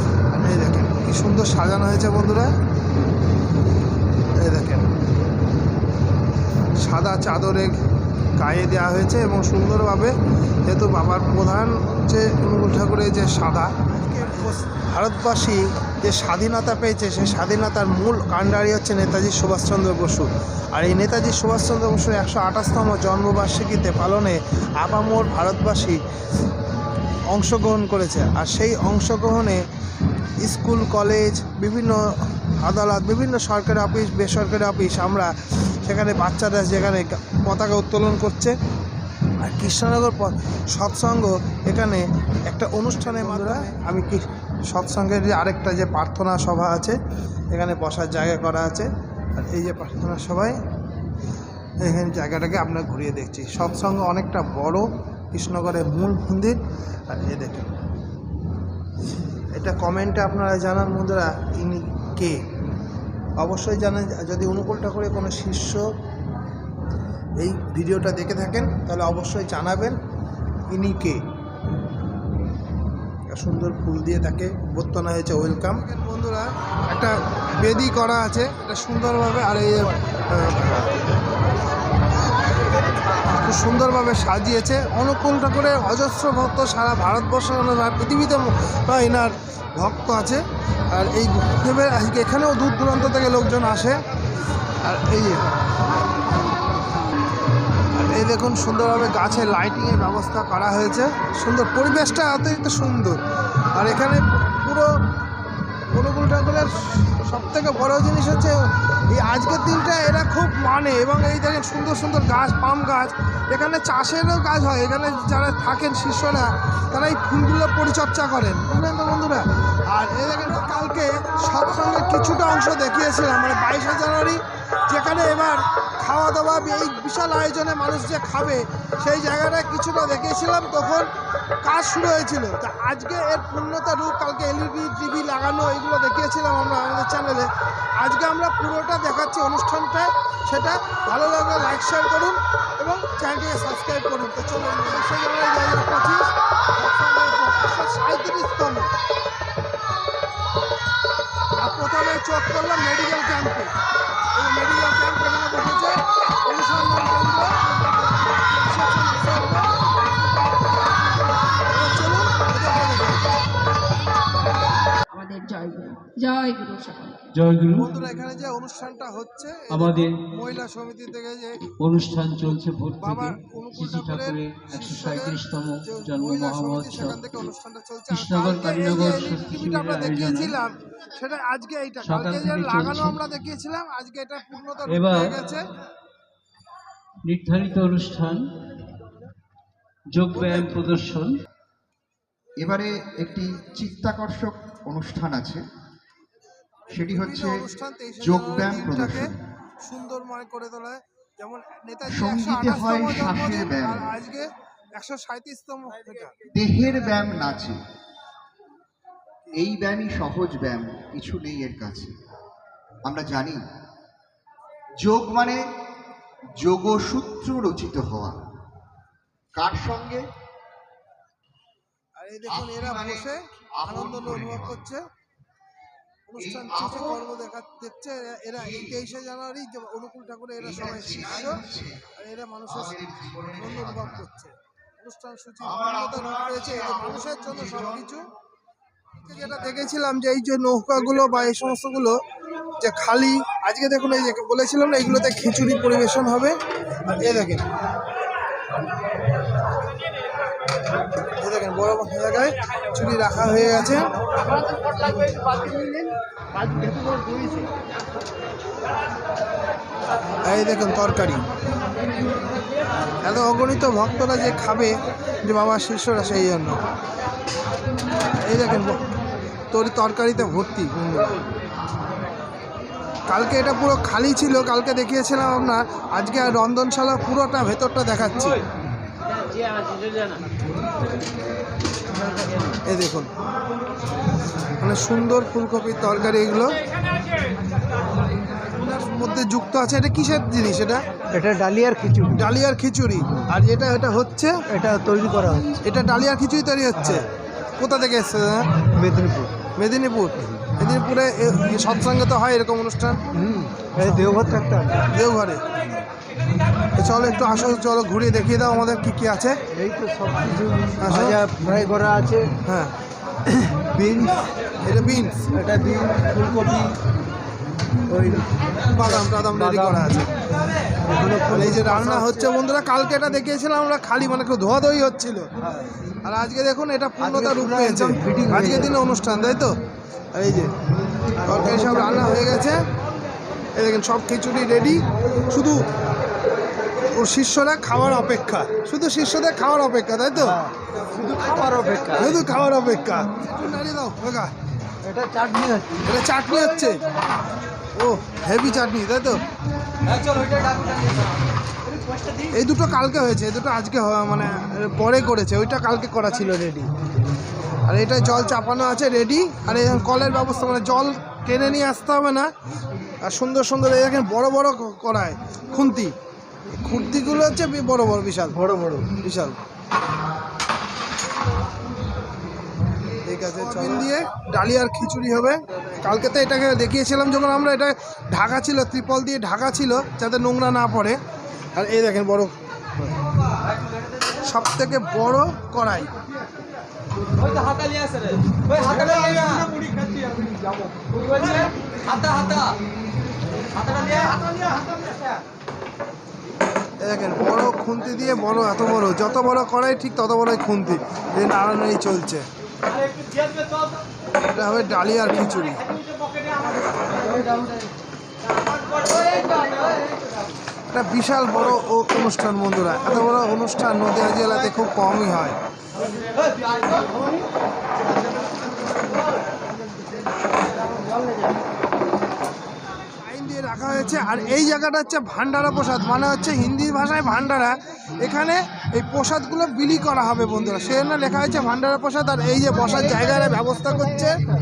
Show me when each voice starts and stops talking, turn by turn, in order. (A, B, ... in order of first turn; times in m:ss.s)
0:00.3-0:02.5 A
0:04.4-0:04.9 A
0:06.8-0:07.7 A
0:08.4-0:10.1 A
0:10.6-0:26.0 A
0:27.3-0:29.6 A
0:30.4-0:32.0 A
0:32.6-0:38.5 A
0:39.4-0:47.0 A
0:43.2-0:43.5 B
0:47.5-0:50.6 A
0:51.8-0:57.7 A
0:59.5-1:02.4 A
1:03.4-1:05.8 A
1:07.4-1:10.0 A
1:10.7-1:11.2 A
1:13.3-1:21.0 A
1:23.3-1:34.0 A
1:34.8-1:35.5 A
1:37.9-1:43.2 A
1:43.7-1:44.9 A
1:45.9-2:11.1 A
2:11.6-2:17.5 A
2:18.0-2:28.9 A
2:31.6-2:33.7 A
2:34.4-2:39.7 A
2:41.6-2:43.2 A
2:45.1-2:47.3 C
2:47.3-2:47.9 D
2:47.7-2:51.6 A
2:49.7-2:50.1 D
2:51.8-2:57.2 D
2:53.0-3:05.6 A
2:58.1-3:00.6 D
3:02.0-3:03.2 D
3:04.9-3:05.4 D
3:07.2-3:08.4 D
3:10.1-3:11.3 D
3:10.3-3:10.8 A
3:12.6-3:15.6 E
3:16.9-3:17.6 E
3:16.9-3:19.3 A
3:18.2-3:19.4 E
3:19.8-3:26.4 A
3:22.1-3:24.1 E
3:26.4-3:27.8 E
3:29.5-3:32.1 E
3:33.0-3:33.6 E
3:35.0-3:35.6 E
3:36.6-3:38.4 E
3:39.5-3:40.2 E
3:42.2-3:45.0 A
3:42.4-3:44.8 E
3:46.3-3:58.2 A
3:46.4-3:47.2 E
3:50.6-3:52.1 E
3:52.7-3:54.2 E
3:56.1-3:57.2 E
3:59.2-4:02.2 A
4:02.8-4:07.6 A
4:11.3-4:14.1 A
4:14.7-4:17.7 B
4:20.4-4:21.4 A
4:23.2-4:26.8 A
4:28.3-4:29.0 A
4:29.7-4:31.4 A
4:33.3-4:38.6 A
4:42.8-4:43.3 A
4:44.8-4:46.8 A
4:48.7-4:51.0 A
4:51.3-4:52.4 B
4:52.3-4:54.5 A
4:54.7-4:55.7 B
4:55.8-4:57.3 A
4:57.0-4:57.3 B
4:57.8-4:58.7 A
4:59.0-4:59.5 B
4:59.8-5:03.2 A
5:03.3-5:05.1 B
5:04.0-5:04.3 A
5:05.1-5:05.6 A
5:07.0-5:09.6 A
5:09.7-5:12.5 B
5:11.0-5:11.4 A
5:12.6-5:12.9 A
5:13.4-5:14.4 B
5:14.8-5:15.3 A
5:15.5-5:17.0 B
5:18.1-5:20.2 B
5:18.9-5:20.3 A
5:21.0-5:22.4 B
5:21.5-5:25.5 A
5:26.2-5:29.8 A
5:27.2-5:28.9 B
5:30.3-5:30.7 A
5:31.4-5:32.4 B
5:31.4-5:32.8 A
5:33.8-5:35.8 A
5:37.1-5:40.6 A
5:40.4-5:42.4 B
5:42.2-5:44.5 A
5:45.0-5:46.0 B
5:46.0-5:47.0 A
5:48.0-5:49.4 A
5:50.4-5:50.8 B
5:52.5-5:56.9 A
5:57.8-6:02.5 A
6:03.2-6:06.1 A
6:06.7-6:08.6 A
6:08.5-6:09.1 B
6:09.2-6:09.6 A
6:13.2-6:21.2 A
6:21.7-6:23.2 A
6:24.4-6:26.1 A
6:28.9-6:30.3 B
6:37.0-6:42.4 A
6:44.4-6:45.8 A
6:50.9-6:55.6 A
7:03.2-7:14.4 A